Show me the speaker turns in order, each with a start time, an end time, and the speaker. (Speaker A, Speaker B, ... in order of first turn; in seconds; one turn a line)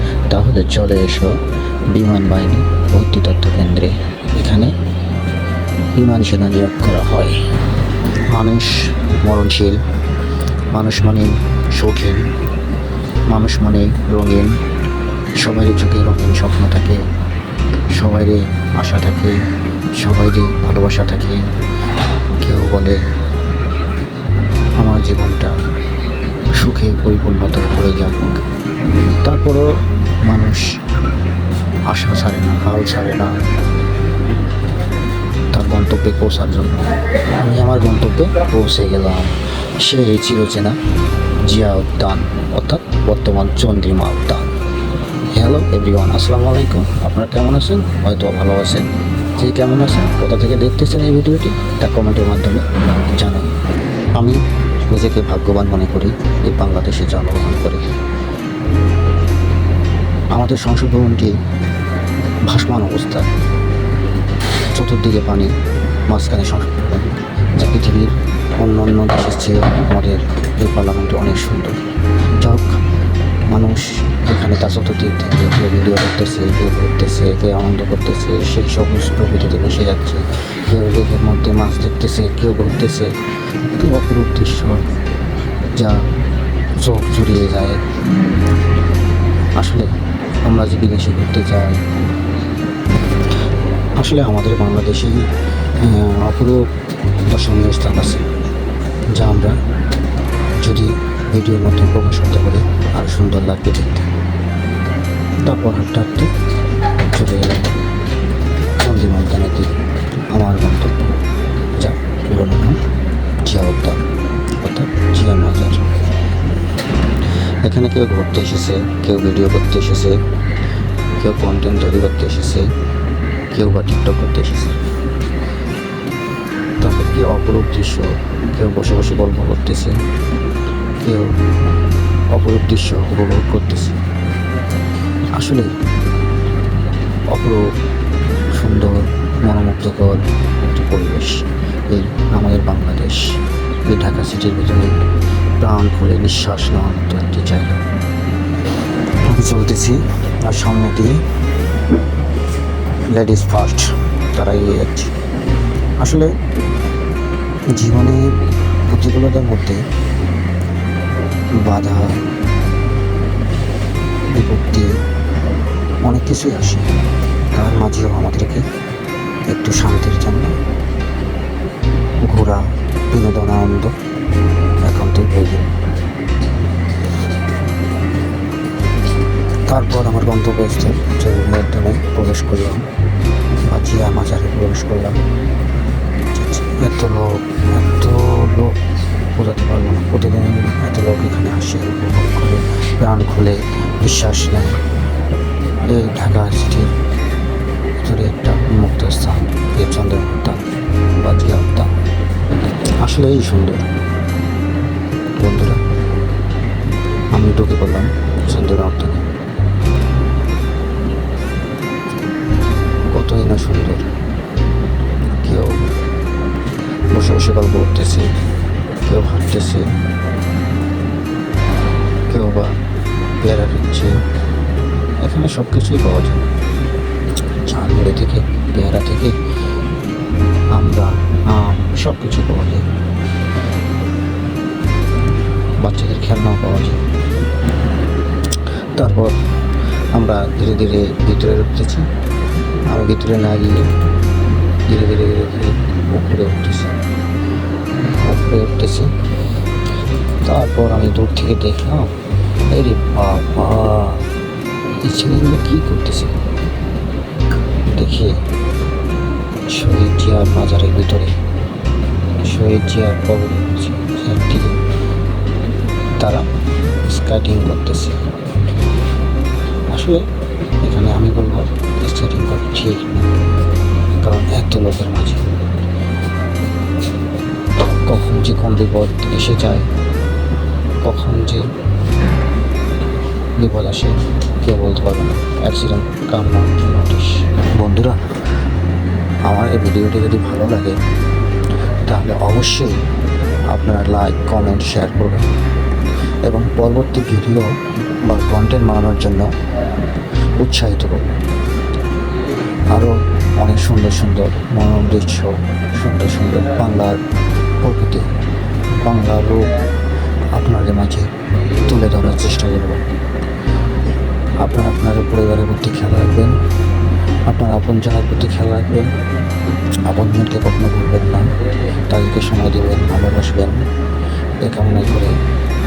Speaker A: 0.3-1.4
Speaker A: 1.9-4.7
Speaker A: 6.0-7.4
Speaker A: 8.3-9.8
Speaker A: 10.7-12.3
Speaker A: 13.3-14.6
Speaker A: 15.4-17.0
Speaker A: 17.9-19.4
Speaker A: 20.0-21.4
Speaker A: 22.4-23.0
Speaker A: 24.8-25.6
Speaker A: 26.6-28.4
Speaker A: 29.2-29.7
Speaker A: 30.2-30.7
Speaker A: 31.9-33.4
Speaker A: 35.5-40.8
Speaker A: 41.5-44.5
Speaker A: 45.3-53.5
Speaker A: 54.1-57.8
Speaker A: 60.3-61.4
Speaker A: 62.5-63.3
Speaker A: 64.7-65.5
Speaker A: 66.1-71.8
Speaker A: 72.4-72.7
Speaker A: 73.5-83.1
Speaker A: 83.7-84.8
Speaker A: 85.8-86.0
Speaker A: 86.8-87.8
Speaker A: 89.6-89.9
Speaker A: 90.4-91.9
Speaker A: 94.0-95.2
Speaker A: 95.8-96.7
Speaker A: 97.3-98.2
Speaker A: 99.1-99.6
Speaker A: 100.6-104.1
Speaker A: 105.4-106.3
Speaker A: 107.0-107.7
Speaker A: 108.8-109.7
Speaker A: 110.3-111.1
Speaker A: 111.8-112.8
Speaker A: 113.4-114.0
Speaker A: 114.5-115.8
Speaker A: 117.6-120.2
Speaker A: 121.2-122.7
Speaker A: 123.5-124.8
Speaker A: 126.8-129.9
Speaker A: 131.0-131.3
Speaker A: 132.3-134.0
Speaker A: 135.3-135.7
Speaker A: 137.3-137.6
Speaker A: 138.5-145.0
Speaker A: 145.6-147.8
Speaker A: 149.3-151.2
Speaker A: 153.1-155.1
Speaker A: 156.0-156.3
Speaker A: 157.8-158.3
Speaker A: 158.9-159.8
Speaker A: 161.6-162.2
Speaker A: 164.3-164.9
Speaker A: 166.0-166.9
Speaker A: 167.5-168.6
Speaker A: 169.5-170.5
Speaker A: 172.2-173.9
Speaker A: 174.8-175.7
Speaker A: 179.7-182.8
Speaker A: 183.7-185.2
Speaker A: 186.3-188.8
Speaker A: 189.3-194.8
Speaker A: 195.8-196.9
Speaker A: 198.0-200.6
Speaker A: 201.2-201.9
Speaker A: 203.0-203.8
Speaker A: 205.3-205.8
Speaker A: 207.3-209.3
Speaker A: 213.1-214.1
Speaker A: 215.4-215.8
Speaker A: 217.1-218.3
Speaker A: 219.0-219.9
Speaker A: 222.3-222.8
Speaker A: 223.4-224.2
Speaker A: 225.2-226.4
Speaker A: 227.6-229.3
Speaker A: 230.7-232.8
Speaker A: 235.8-237.0
Speaker A: 238.9-239.3
Speaker A: 240.1-242.1
Speaker A: 242.9-243.9
Speaker A: 244.9-246.9
Speaker A: 248.2-249.1
Speaker A: 250.4-252.1
Speaker A: 252.7-254.3
Speaker A: 255.0-256.4
Speaker A: 257.9-258.4
Speaker A: 259.7-261.4
Speaker A: 262.4-264.8
Speaker A: 266.2-266.4
Speaker A: 267.0-268.2
Speaker A: 269.9-270.2
Speaker A: 270.8-273.4
Speaker A: 274.2-275.6
Speaker A: 278.1-279.9
Speaker A: 281.0-281.7
Speaker A: 283.6-288.2
Speaker A: 289.4-291.0
Speaker A: 292.1-293.0
Speaker A: 293.7-295.4
Speaker A: 296.4-299.5
Speaker A: 300.6-301.3
Speaker A: 302.9-307.2
Speaker A: 307.8-308.3
Speaker A: 309.0-309.8
Speaker A: 310.5-311.3
Speaker A: 311.9-313.1
Speaker A: 314.6-316.6
Speaker A: 317.5-319.1
Speaker A: 320.1-321.5
Speaker A: 322.1-323.8
Speaker A: 324.6-325.3